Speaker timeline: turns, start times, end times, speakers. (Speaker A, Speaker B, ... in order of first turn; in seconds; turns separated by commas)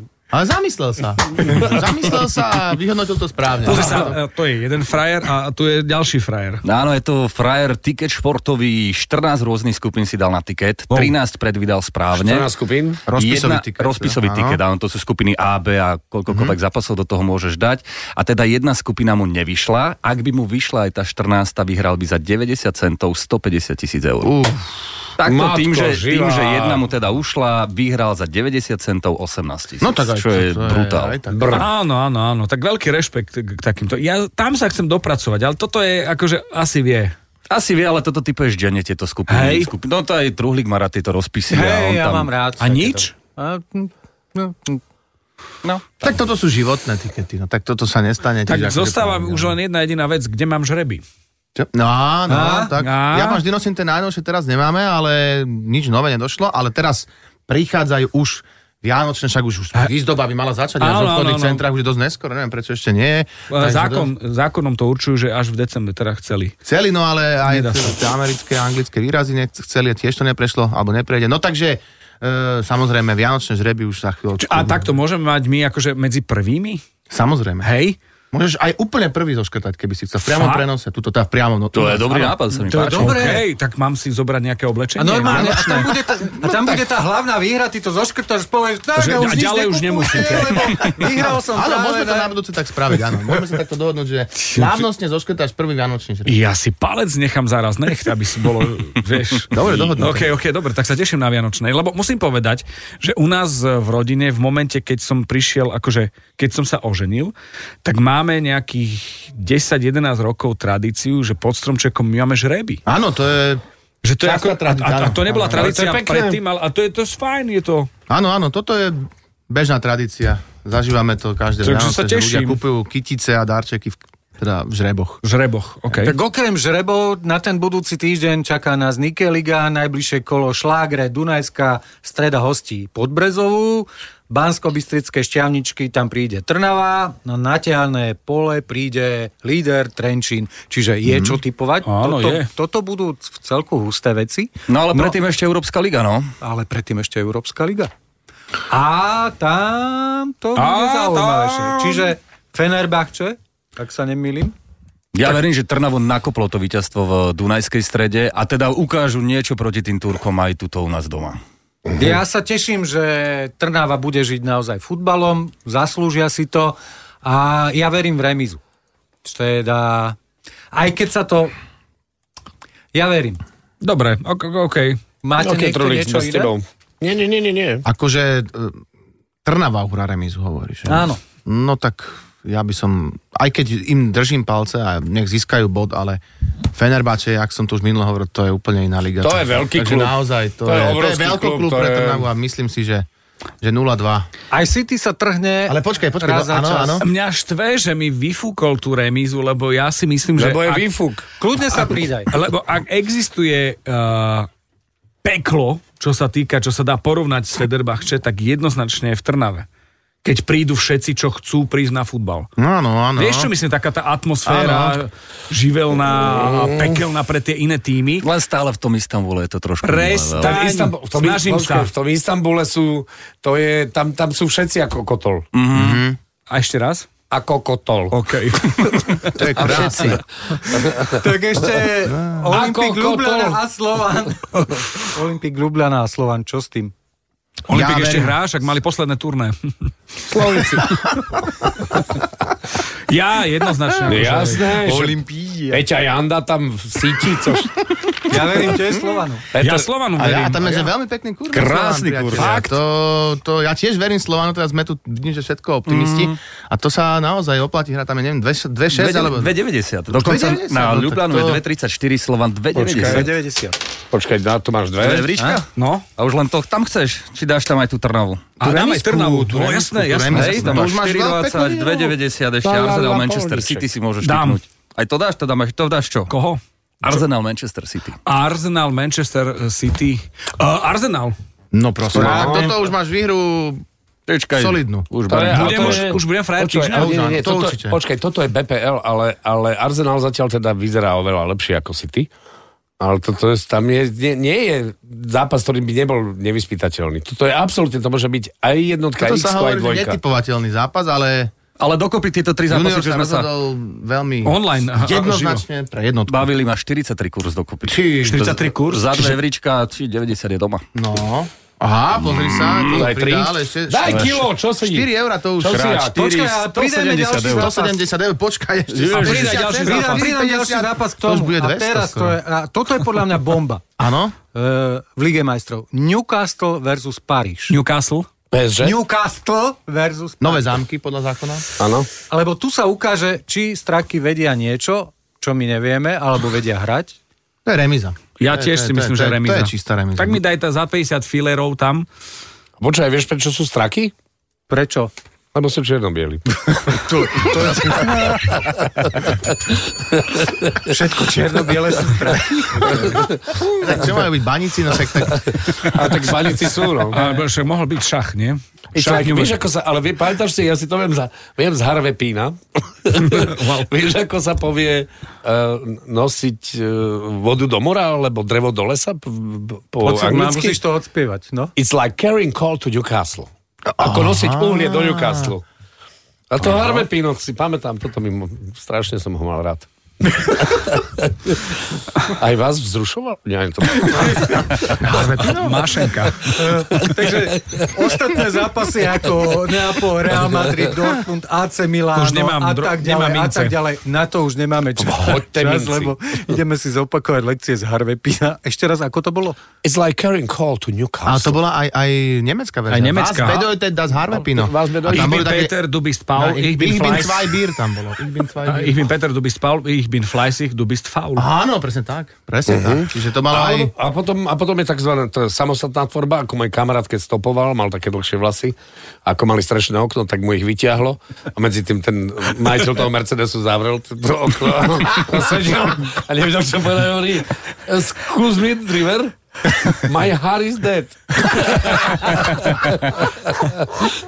Speaker A: 0.3-4.2, Speaker B: 1.4-2.1, Speaker C: 3.6-6.6, Speaker B: 3.7-4.1, Speaker D: 6.6-12.5, Speaker B: 12.1-13.0, Speaker A: 13.1-14.6, Speaker D: 13.1-24.3, Speaker A: 16.3-16.6, Speaker A: 24.2-24.6, Speaker D: 25.2-31.2, Speaker B: 25.2-26.8, Speaker A: 29.8-31.7, Speaker B: 31.3-31.7, Speaker C: 31.5-37.1, Speaker D: 37.5-42.3, Speaker C: 39.3-39.7, Speaker E: 41.5-44.8, Speaker C: 42.6-43.1, Speaker A: 46.0-49.5, Speaker C: 48.5-51.0, Speaker A: 51.5-64.1, Speaker E: 52.3-52.7, Speaker C: 52.8-53.4, Speaker C: 60.8-61.6, Speaker C: 63.5-66.5, Speaker A: 66.6-74.9, Speaker C: 67.5-67.9, Speaker C: 74.4-76.8, Speaker A: 77.1-77.7, Speaker C: 77.6-78.0, Speaker A: 78.3-82.4, Speaker C: 80.3-80.7, Speaker D: 81.7-83.4, Speaker C: 82.7-85.9, Speaker E: 82.7-83.4, Speaker E: 85.0-92.3, Speaker A: 85.3-86.8, Speaker C: 89.0-90.9, Speaker A: 91.5-96.3, Speaker C: 94.4-94.8, Speaker C: 96.2-112.8, Speaker A: 99.5-100.4, Speaker A: 112.8-113.6, Speaker C: 114.0-117.9, Speaker A: 114.2-115.8, Speaker B: 115.5-116.4, Speaker A: 118.1-125.2, Speaker C: 121.6-122.6, Speaker C: 125.2-126.2, Speaker E: 125.9-145.2, Speaker A: 141.1-141.3, Speaker C: 141.8-142.5, Speaker D: 144.7-146.3, Speaker E: 146.4-147.9, Speaker E: 148.7-154.5, Speaker C: 150.6-152.1, Speaker D: 155.1-161.4, Speaker E: 161.9-168.6, Speaker E: 169.2-170.2, Speaker E: 170.7-171.5, Speaker E: 172.9-173.4, Speaker C: 173.8-175.0, Speaker E: 175.2-176.5, Speaker B: 175.4-177.8, Speaker A: 177.8-178.8, Speaker A: 179.4-193.1, Speaker E: 180.9-181.2, Speaker B: 189.2-190.1, Speaker B: 190.6-192.2, Speaker A: 193.6-194.3, Speaker E: 194.5-197.0, Speaker A: 195.7-197.0, Speaker C: 197.0-200.8, Speaker B: 200.3-201.2, Speaker E: 201.4-202.3, Speaker C: 202.3-204.5, Speaker C: 205.2-209.7, Speaker C: 210.2-212.5, Speaker A: 212.6-213.5, Speaker C: 213.2-218.3, Speaker A: 214.4-215.0, Speaker B: 216.1-217.0, Speaker D: 218.2-220.6, Speaker C: 219.8-221.9, Speaker B: 220.4-225.4, Speaker D: 225.5-226.0, Speaker A: 225.7-226.2, Speaker C: 226.5-227.1, Speaker B: 227.3-231.2, Speaker C: 228.1-230.1, Speaker A: 229.3-230.2, Speaker E: 231.1-236.9, Speaker A: 232.1-232.6, Speaker B: 232.5-233.6, Speaker C: 234.5-234.8, Speaker C: 237.7-239.6, Speaker A: 237.7-238.4, Speaker B: 240.2-241.0, Speaker C: 240.8-241.4, Speaker C: 241.9-242.2, Speaker C: 243.1-244.8, Speaker B: 244.1-245.2, Speaker E: 244.3-245.8, Speaker B: 245.7-247.9, Speaker E: 248.3-249.4, Speaker B: 249.5-249.9, Speaker C: 249.6-250.8, Speaker A: 250.2-259.5, Speaker D: 251.5-252.6, Speaker C: 252.4-252.7, Speaker D: 255.9-256.3, Speaker D: 258.9-263.3, Speaker A: 260.1-261.6, Speaker B: 262.8-263.3, Speaker E: 262.9-263.8, Speaker B: 264.1-265.3, Speaker D: 265.0-268.6, Speaker C: 265.8-266.0, Speaker C: 268.6-270.9, Speaker A: 268.6-272.1, Speaker D: 270.3-276.3, Speaker B: 272.6-273.9, Speaker C: 274.2-274.6, Speaker C: 276.3-277.2, Speaker D: 277.0-278.2, Speaker C: 278.2-281.3, Speaker A: 281.7-283.8, Speaker B: 282.1-282.9, Speaker D: 282.3-282.6, Speaker D: 284.3-286.1, Speaker A: 284.6-285.1, Speaker B: 285.3-292.3, Speaker C: 285.4-287.3, Speaker A: 286.9-288.0, Speaker B: 293.0-300.2, Speaker A: 299.2-301.5, Speaker D: 301.8-303.5, Speaker A: 302.7-306.4, Speaker C: 304.4-305.6, Speaker D: 306.3-310.8, Speaker A: 307.9-308.6, Speaker C: 308.2-309.4, Speaker A: 310.9-315.9, Speaker D: 312.3-313.1, Speaker B: 312.8-316.3, Speaker D: 314.1-314.4, Speaker D: 315.7-317.8, Speaker E: 316.1-317.8, Speaker A: 317.4-322.4, Speaker D: 318.9-319.6, Speaker C: 319.1-320.3, Speaker E: 319.6-323.8, Speaker A: 324.0-324.4, Speaker E: 324.5-327.8, Speaker C: 327.7-328.2, Speaker B: 328.5-328.9, Speaker E: 328.8-330.7, Speaker A: 330.4-331.7, Speaker B: 331.8-332.1, Speaker E: 332.3-337.2, Speaker A: 337.6-340.4, Speaker C: 338.4-342.1, Speaker B: 342.8-344.1, Speaker E: 344.7-345.1, Speaker B: 345.5-347.7, Speaker E: 346.9-348.5, Speaker B: 348.3-350.9, Speaker E: 350.9-353.2, Speaker B: 352.8-354.2, Speaker A: 353.6-355.6, Speaker B: 355.3-357.2, Speaker C: 357.1-359.6, Speaker B: 358.9-370.8, Speaker C: 363.2-363.9, Speaker E: 370.0-371.7, Speaker B: 371.8-373.5, Speaker A: 373.9-375.5, Speaker B: 374.0-375.6, Speaker B: 376.5-385.3, Speaker A: 384.9-386.0, Speaker C: 385.4-386.6, Speaker B: 386.3-387.8, Speaker E: 386.5-399.6, Speaker C: 392.1-393.8, Speaker B: 395.0-396.1, Speaker B: 399.8-401.6, Speaker A: 401.2-405.8, Speaker C: 402.9-403.7, Speaker B: 404.3-405.4, Speaker C: 405.1-407.5, Speaker A: 406.3-409.0, Speaker C: 408.6-411.4, Speaker A: 411.4-413.9, Speaker B: 412.7-434.1, Speaker C: 431.9-432.7